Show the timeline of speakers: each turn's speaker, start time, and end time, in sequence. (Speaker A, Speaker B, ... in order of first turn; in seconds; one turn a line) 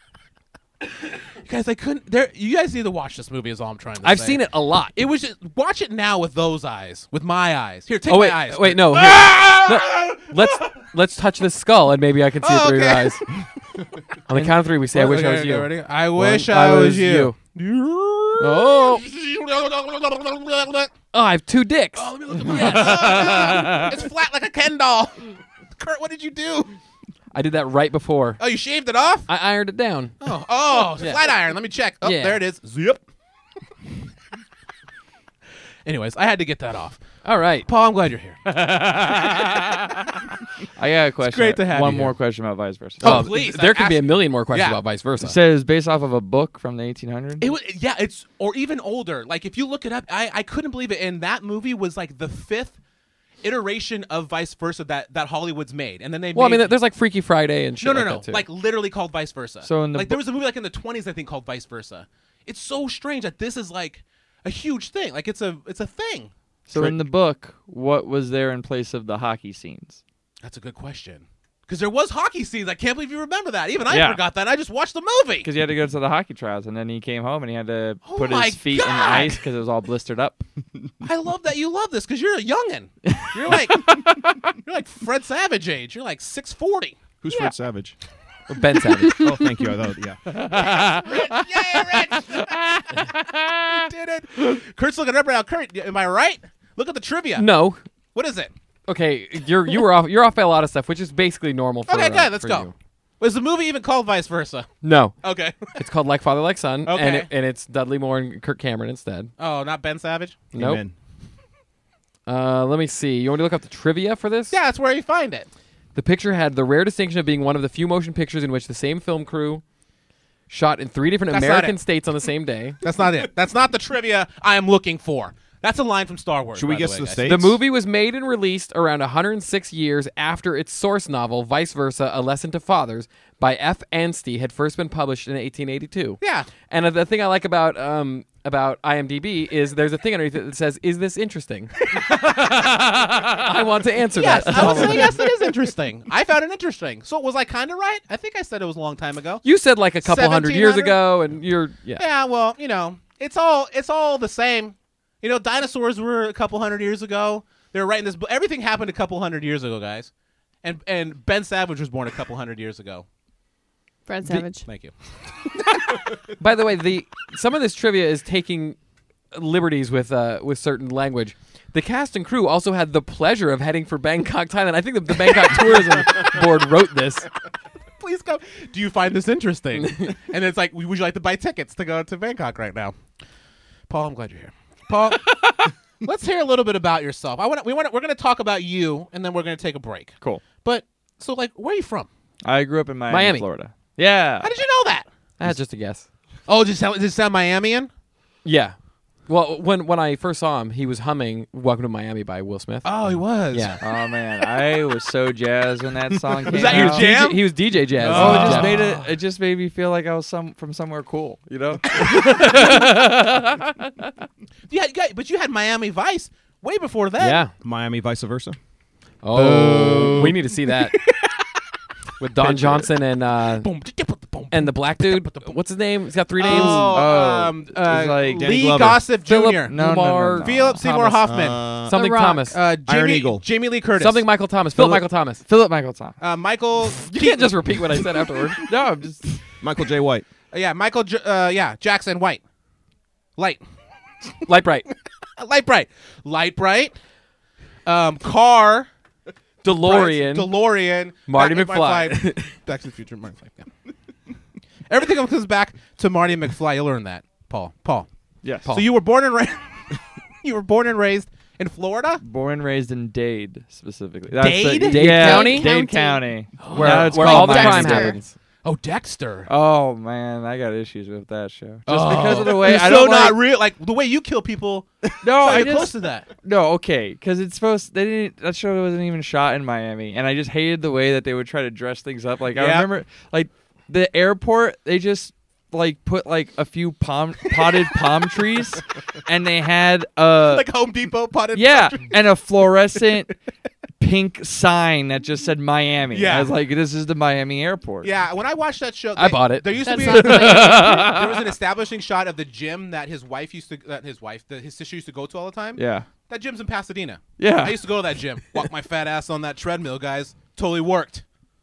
Speaker A: 1.4-4.4
Speaker B: 4.0-4.9
Speaker A: 4.9-10.8
Speaker B: 8.1-13.3
Speaker A: 12.4-13.3
Speaker B: 14.3-17.4
Speaker A: 14.9-20.9
Speaker B: 18.4-19.0
Speaker B: 21.1-23.9
Speaker A: 22.0-26.8
Speaker B: 27.3-28.4
Speaker A: 28.4-29.3
Speaker B: 29.3-30.2
Speaker A: 30.2-33.0
Speaker B: 30.9-31.2
Speaker B: 32.0-32.4
Speaker A: 35.9-37.0
Speaker B: 37.2-37.7
Speaker A: 37.7-39.8
Speaker C: 40.8-43.3
Speaker A: 41.2-42.1
Speaker A: 43.0-44.8
Speaker B: 43.0-45.4
Speaker C: 45.2-47.5
Speaker A: 47.4-52.8
Speaker A: 53.4-56.7
Speaker B: 56.3-58.5
Speaker A: 57.8-66.3
Speaker C: 59.6-60.2
Speaker C: 66.7-70.0
Speaker A: 70.4-75.5
Speaker C: 73.9-74.2
Speaker C: 75.4-80.5
Speaker A: 78.0-79.4
Speaker A: 81.0-87.0
Speaker C: 83.1-84.1
Speaker D: 87.2-88.0
Speaker B: 88.5-89.3
Speaker E: 89.0-89.7
Speaker D: 89.2-90.2
Speaker C: 90.3-91.4
Speaker A: 90.5-97.5
Speaker C: 92.0-92.4
Speaker B: 97.4-97.8
Speaker A: 98.2-98.5
Speaker B: 98.9-102.7
Speaker A: 101.9-102.7
Speaker A: 103.2-104.7
Speaker B: 104.8-105.2
Speaker A: 105.2-105.8
Speaker B: 105.8-109.3
Speaker A: 106.9-107.3
Speaker A: 109.4-110.4
Speaker B: 110.5-110.8
Speaker D: 110.5-110.9
Speaker B: 112.3-114.6
Speaker A: 114.5-115.5
Speaker B: 116.0-119.6
Speaker B: 120.5-122.8
Speaker A: 121.3-121.8
Speaker A: 122.8-127.3
Speaker D: 126.5-127.6
Speaker B: 127.2-145.3
Speaker A: 136.2-136.5
Speaker A: 144.2-149.4
Speaker C: 144.5-145.0
Speaker B: 149.4-152.0
Speaker A: 150.0-151.0
Speaker A: 152.0-160.1
Speaker A: 160.6-163.1
Speaker E: 164.1-164.7
Speaker A: 164.3-164.9
Speaker B: 166.4-168.8
Speaker B: 169.3-177.3
Speaker A: 178.0-183.0
Speaker A: 183.9-192.1
Speaker C: 192.4-194.5
Speaker B: 193.1-193.5
Speaker A: 194.4-195.1
Speaker B: 195.4-196.1
Speaker A: 196.5-197.9
Speaker B: 198.4-202.9
Speaker A: 202.8-203.8
Speaker B: 203.5-203.8
Speaker C: 203.8-207.1
Speaker A: 206.5-209.1
Speaker B: 206.5-208.8
Speaker C: 208.1-213.1
Speaker B: 211.9-213.4
Speaker A: 214.7-217.4
Speaker B: 217.2-217.5
Speaker D: 217.6-218.6
Speaker B: 219.2-221.1
Speaker C: 219.4-220.1
Speaker A: 219.7-221.3
Speaker B: 222.2-223.7
Speaker C: 222.4-222.8
Speaker A: 223.6-225.6
Speaker B: 224.5-227.0
Speaker A: 226.4-229.8
Speaker C: 226.4-228.6
Speaker D: 228.2-229.0
Speaker B: 229.2-231.3
Speaker C: 229.7-230.6
Speaker A: 230.4-231.6
Speaker D: 231.2-232.0
Speaker B: 231.9-232.6
Speaker E: 231.9-232.5
Speaker A: 232.4-234.2
Speaker D: 232.8-233.4
Speaker B: 234.0-235.4
Speaker C: 234.8-236.2
Speaker A: 236.2-238.1
Speaker B: 237.1-238.6
Speaker C: 238.7-239.4
Speaker D: 239.6-240.3
Speaker A: 240.5-242.4
Speaker B: 244.5-244.9
Speaker A: 245.4-246.9
Speaker A: 247.9-248.9
Speaker B: 249.6-250.5
Speaker A: 249.7-253.7
Speaker B: 251.3-252.6
Speaker A: 254.9-258.1
Speaker C: 258.4-258.7
Speaker B: 258.7-258.9
Speaker A: 258.7-259.8
Speaker A: 260.4-262.2
Speaker C: 262.2-268.2
Speaker A: 264.4-265.2
Speaker B: 264.8-265.7
Speaker E: 265.1-266.3
Speaker A: 266.6-267.7
Speaker B: 266.7-268.3
Speaker E: 267.2-268.2
Speaker A: 268.6-269.5
Speaker C: 269.5-273.4
Speaker A: 271.9-276.3
Speaker C: 275.2-290.7
Speaker A: 282.5-282.9
Speaker A: 290.5-292.1
Speaker C: 291.5-293.3
Speaker C: 294.0-298.1
Speaker A: 296.1-296.5
Speaker A: 298.0-311.2
Speaker B: 299.2-301.2
Speaker E: 299.8-301.2
Speaker C: 305.8-306.1
Speaker C: 307.4-307.8